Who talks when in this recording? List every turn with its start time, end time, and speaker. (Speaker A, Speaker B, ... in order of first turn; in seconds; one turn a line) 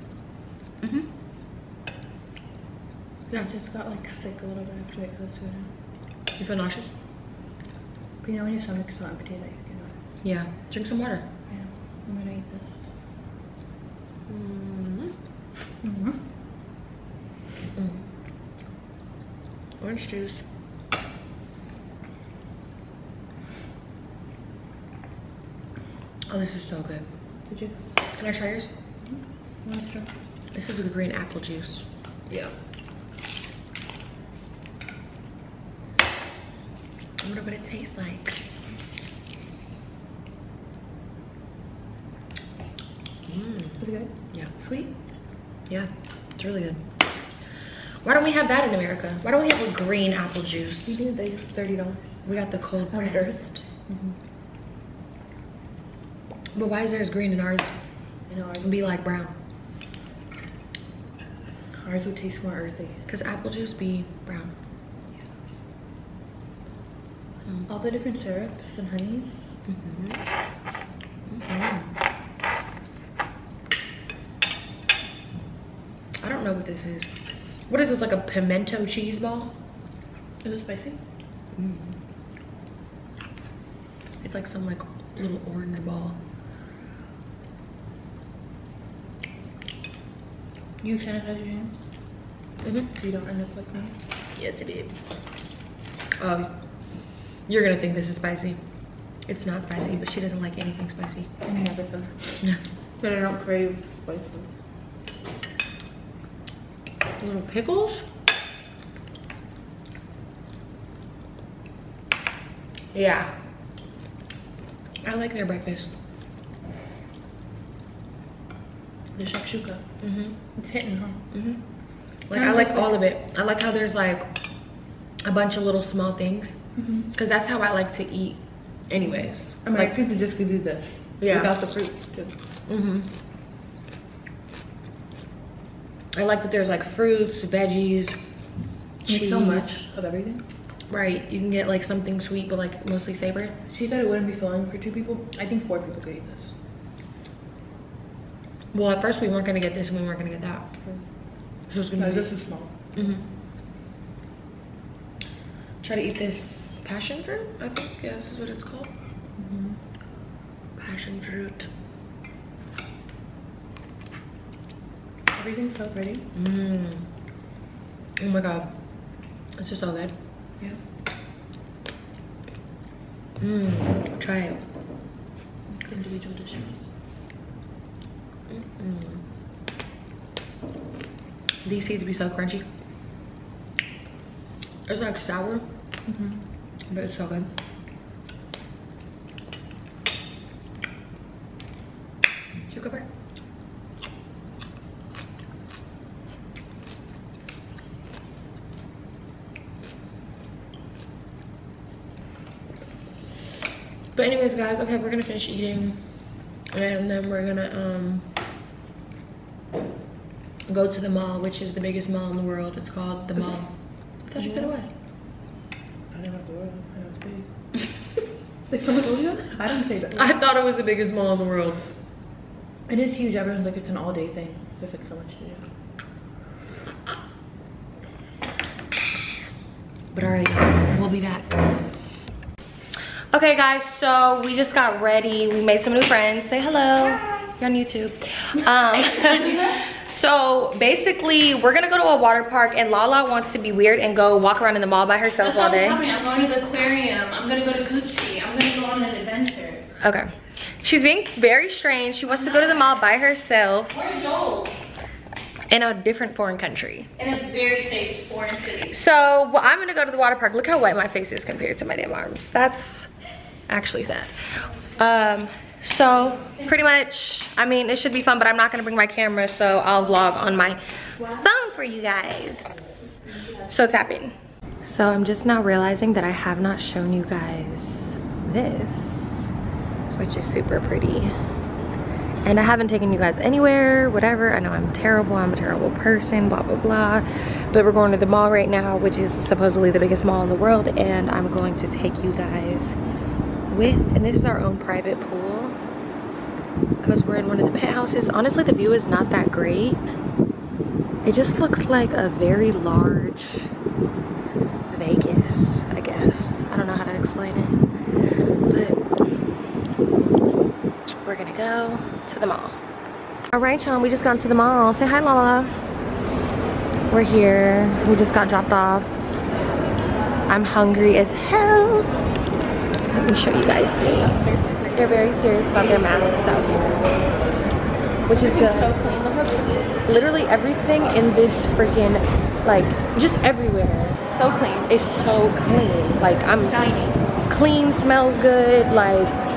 Speaker A: 0.8-1.1
Speaker B: 3.3-5.7
Speaker A: 6.3-6.9
Speaker B: 8.2-10.0
Speaker A: 10.2-11.3
Speaker B: 11.5-12.9
Speaker A: 14.3-15.2
Speaker B: 15.8-16.3
Speaker A: 17.7-18.1
Speaker A: 19.8-20.4
Speaker A: 26.3-27.1
Speaker B: 27.5-28.0
Speaker A: 28.1-28.7
Speaker B: 29.0-30.1
Speaker A: 30.5-32.5
Speaker A: 37.2-38.4
Speaker A: 43.3-43.8
Speaker B: 43.8-44.9
Speaker A: 45.7-46.9
Speaker A: 48.0-51.0
Speaker B: 50.9-52.1
Speaker A: 52.2-53.6
Speaker B: 52.9-54.2
Speaker A: 56.5-57.8
Speaker B: 58.3-58.9
Speaker A: 58.6-59.4
Speaker B: 61.8-63.0
Speaker A: 63.1-64.5
Speaker B: 67.7-69.6
Speaker A: 69.7-70.2
Speaker A: 71.3-71.9
Speaker A: 76.2-77.1
Speaker A: 77.7-79.6
Speaker B: 80.4-81.0
Speaker A: 81.5-82.0
Speaker A: 84.2-86.2
Speaker B: 90.8-91.9
Speaker A: 92.6-92.9
Speaker B: 93.0-94.0
Speaker A: 94.3-95.0
Speaker A: 96.2-101.3
Speaker B: 101.4-102.5
Speaker B: 103.0-104.5
Speaker A: 107.2-108.1
Speaker A: 112.9-113.3
Speaker A: 115.0-116.0
Speaker B: 119.2-119.9
Speaker A: 120.0-120.4
Speaker B: 120.5-121.3
Speaker A: 121.3-121.6
Speaker A: 122.3-124.3
Speaker B: 122.3-123.0
Speaker A: 125.2-129.9
Speaker B: 126.8-127.1
Speaker B: 129.6-132.4
Speaker A: 131.2-131.5
Speaker A: 132.7-133.1
Speaker A: 136.1-138.2
Speaker A: 139.0-139.8
Speaker B: 139.1-140.4
Speaker A: 140.9-143.6
Speaker B: 143.7-146.6
Speaker A: 148.7-150.8
Speaker A: 151.7-152.3
Speaker B: 151.9-152.9
Speaker A: 152.9-153.3
Speaker A: 155.8-158.9
Speaker B: 159.4-159.8
Speaker A: 160.8-161.7
Speaker B: 165.3-166.3
Speaker A: 166.3-167.1
Speaker A: 168.2-170.2
Speaker A: 173.4-174.6
Speaker B: 175.7-176.9
Speaker A: 178.5-179.2
Speaker A: 181.6-182.7
Speaker A: 184.9-185.7
Speaker B: 186.1-186.4
Speaker A: 186.9-187.5
Speaker A: 192.7-193.1
Speaker A: 204.2-208.3
Speaker A: 210.7-214.9
Speaker B: 214.4-214.7
Speaker B: 216.1-217.8
Speaker B: 218.7-220.3
Speaker A: 220.2-221.9
Speaker B: 222.9-225.7
Speaker A: 230.1-231.6
Speaker A: 233.3-246.0
Speaker C: 239.1-239.7
Speaker C: 245.5-246.8
Speaker B: 246.2-249.8
Speaker A: 250.0-254.0
Speaker C: 252.5-252.8
Speaker C: 253.9-254.9
Speaker A: 255.7-257.1
Speaker C: 257.2-258.9
Speaker A: 258.9-263.1
Speaker A: 263.7-264.3
Speaker A: 265.0-270.8
Speaker A: 271.3-272.9
Speaker A: 273.6-279.5
Speaker A: 280.1-281.3
Speaker A: 282.4-293.0
Speaker A: 293.7-295.7
Speaker A: 297.0-300.0
Speaker A: 301.2-303.7
Speaker A: 304.9-307.8
Speaker A: 308.7-309.1
Speaker A: 311.2-312.8
Speaker A: 313.5-315.7
Speaker A: 317.1-319.4
Speaker A: 320.5-322.1
Speaker A: 323.1-324.4
Speaker C: 324.3-325.0
Speaker A: 324.9-327.1
Speaker A: 328.3-328.9
Speaker C: 328.3-329.8
Speaker A: 330.1-334.2
Speaker C: 334.3-334.9
Speaker A: 334.9-336.8
Speaker C: 336.6-337.2
Speaker A: 337.5-339.4